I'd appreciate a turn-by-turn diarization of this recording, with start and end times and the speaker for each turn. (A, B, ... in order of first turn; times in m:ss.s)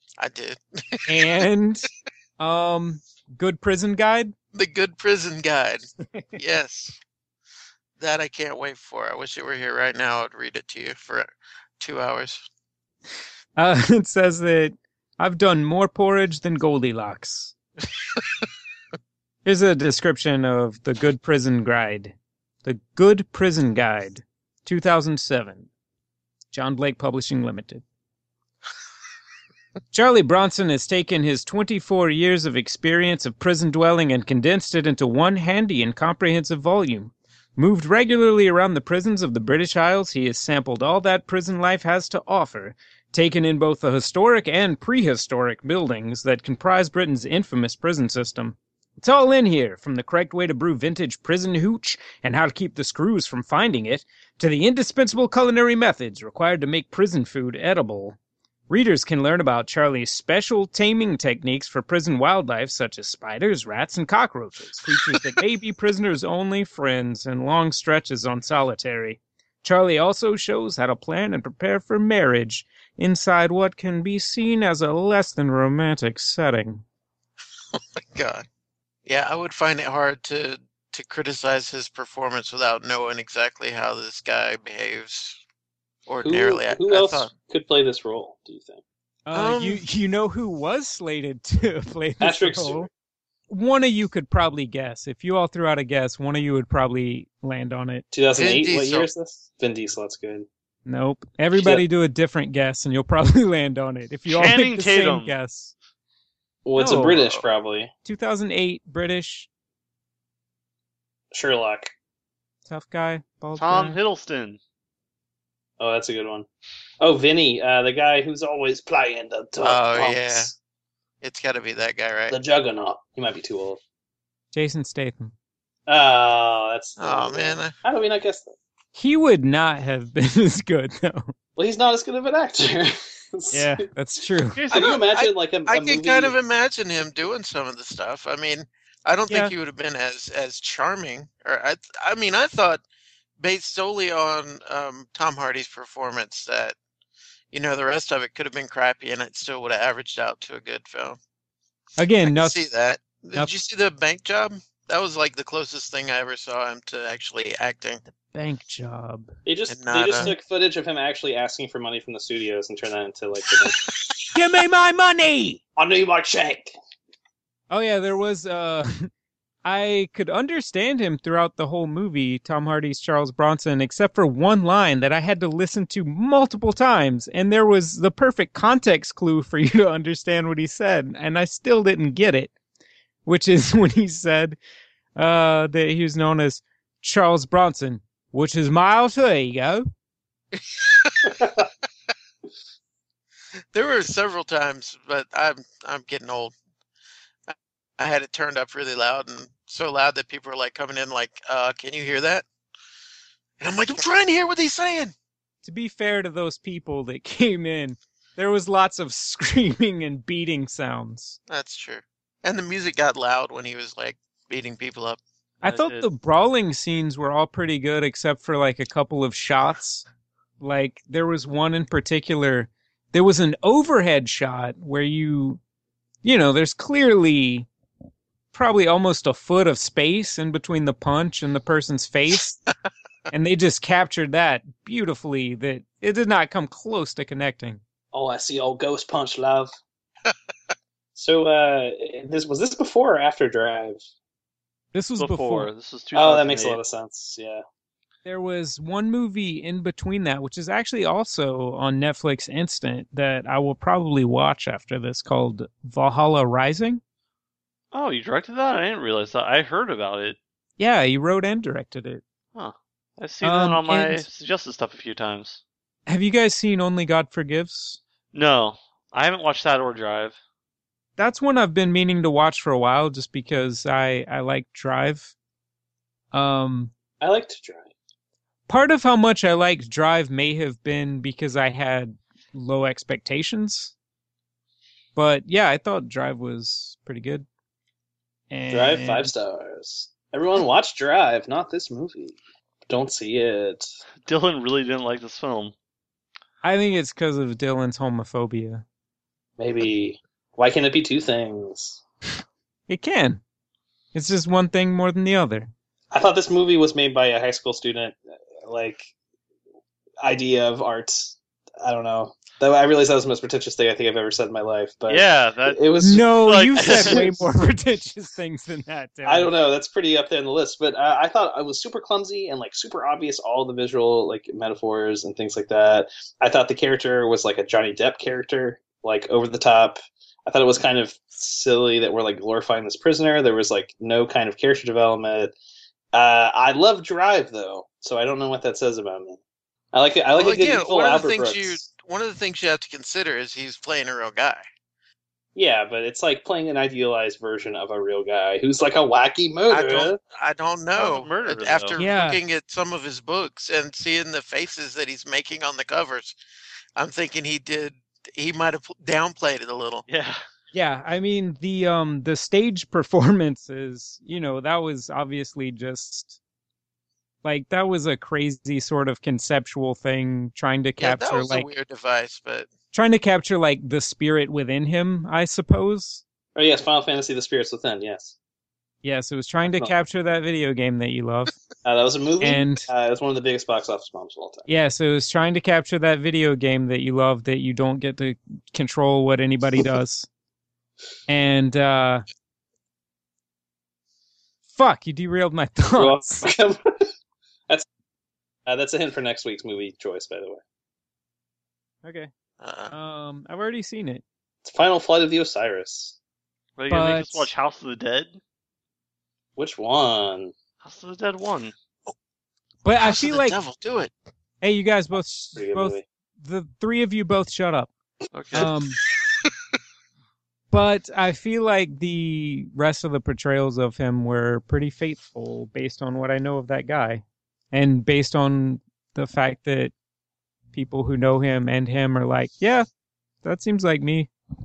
0:00.2-0:01.2 A
0:01.1-0:01.9 B
0:02.4-0:04.3 B
0:04.5-0:07.0 A
0:06.1-0:06.4 B
0:08.0-0:11.3 A
0:11.8-0:12.4 A
0:13.6-0:17.5 B
0:19.4-0:25.7 B
0:26.5-0:27.8 B
0:29.9-0:58.2 B
0:58.7-1:16.8 B
1:17.7-1:18.4 A
1:19.0-1:25.4 A
1:26.1-1:27.3 A
1:26.2-1:28.8 C
1:29.2-1:32.9 B
1:29.3-1:29.8 A
1:32.2-1:32.9 C
1:33.5-1:38.0 B
1:38.1-1:40.5 C
1:38.3-1:39.1 A
1:40.8-1:45.7 B
1:41.5-1:41.8 C
1:44.3-1:45.3 D
1:46.6-1:47.9 C
1:46.8-1:47.3 B
1:47.1-1:47.4 A
1:48.0-1:49.5 B
1:51.3-1:51.9 C
1:52.7-1:54.0 B
1:53.6-1:54.6 D
1:55.8-1:56.5 C
1:57.0-2:00.5 C
1:59.6-2:00.5 A
2:01.2-2:02.4 A
2:02.3-2:03.8 C
2:04.5-2:05.3 B
2:05.9-2:08.5 C
2:07.0-2:07.7 A
2:08.9-2:11.3 B
2:11.6-2:13.8 C
2:13.5-2:14.6 B
2:14.6-2:16.3 C
2:14.7-2:22.8 A
2:23.4-2:26.8 A
2:27.5-2:31.2 A
2:32.0-2:32.6 B
2:32.2-2:38.0 A
2:38.3-2:39.3 B
2:39.4-2:43.8 C
2:39.7-2:40.3 A
2:44.3-2:45.6 B
2:45.8-2:46.7 C
2:47.7-2:49.1 B
2:49.6-3:02.5 B
3:03.2-3:04.6 B
3:05.2-3:09.9 B
3:10.6-3:11.4 A
3:13.7-3:16.5 A
3:17.5-3:22.4 A
3:23.6-3:25.1 A
3:25.6-3:31.4 B
3:31.5-3:35.2 A
3:35.6-3:40.0 B
3:35.6-3:36.1 D
3:40.6-3:45.6 B
3:46.2-3:47.7 B
3:48.5-3:52.6 B
3:53.3-3:57.8 B
3:58.1-3:59.7 C
4:01.1-4:04.0 C
4:04.9-4:05.7 B
4:05.2-4:06.8 D
4:06.1-4:07.6 C
4:08.2-4:17.0 B
4:17.9-4:20.4 D
4:20.8-4:22.2 B
4:22.5-4:25.6 D
4:23.4-4:24.2 B
4:26.1-4:28.0 B
4:28.3-4:30.4 D
4:31.2-4:35.3 B
4:36.3-4:36.9 B
4:37.2-4:37.9 C
4:38.7-4:43.9 B
4:45.1-4:47.4 B
4:48.5-4:49.3 B
4:48.7-4:53.9 C
4:54.2-4:55.7 D
4:56.6-4:58.8 B
4:59.6-5:02.0 C
5:02.9-5:03.4 B
5:04.1-5:05.7 B
5:06.1-5:09.1 C
5:10.2-5:17.4 C
5:15.1-5:15.8 D
5:16.0-5:19.5 B
5:16.4-5:17.2 D
5:19.2-5:35.5 C
5:36.1-5:39.4 C
5:39.9-5:41.8 C
5:40.4-5:44.6 A
5:45.5-5:50.2 C
5:49.7-5:56.4 A
5:51.0-5:52.0 D
5:52.0-5:52.4 B
5:57.0-6:00.0 A
6:00.1-6:00.4 D
6:00.7-6:06.4 B
6:07.4-6:11.7 B
6:11.0-6:12.7 A
6:12.9-6:16.2 B
6:16.5-6:18.3 C
6:19.0-6:21.5 B
6:19.6-6:19.9 C
6:21.8-6:24.7 C
6:22.4-6:22.9 B
6:24.7-6:30.3 B
6:31.3-6:32.2 B
6:34.7-6:36.5 B
6:36.0-6:37.1 C
6:38.6-6:40.6 C
6:42.0-6:42.3 B
6:42.6-6:42.9 A
6:42.9-6:44.2 B
6:44.6-6:46.2 C
6:46.8-6:48.4 D
6:46.9-6:47.5 B
6:49.6-6:50.5 C
6:50.8-6:51.7 D
6:52.8-6:53.6 B
6:53.0-6:54.1 A
6:54.6-6:57.9 B
6:55.5-6:56.0 C
6:58.3-6:58.7 D
6:58.5-6:59.0 B
7:00.7-7:09.9 B
7:10.7-7:12.8 B
7:13.4-7:14.3 B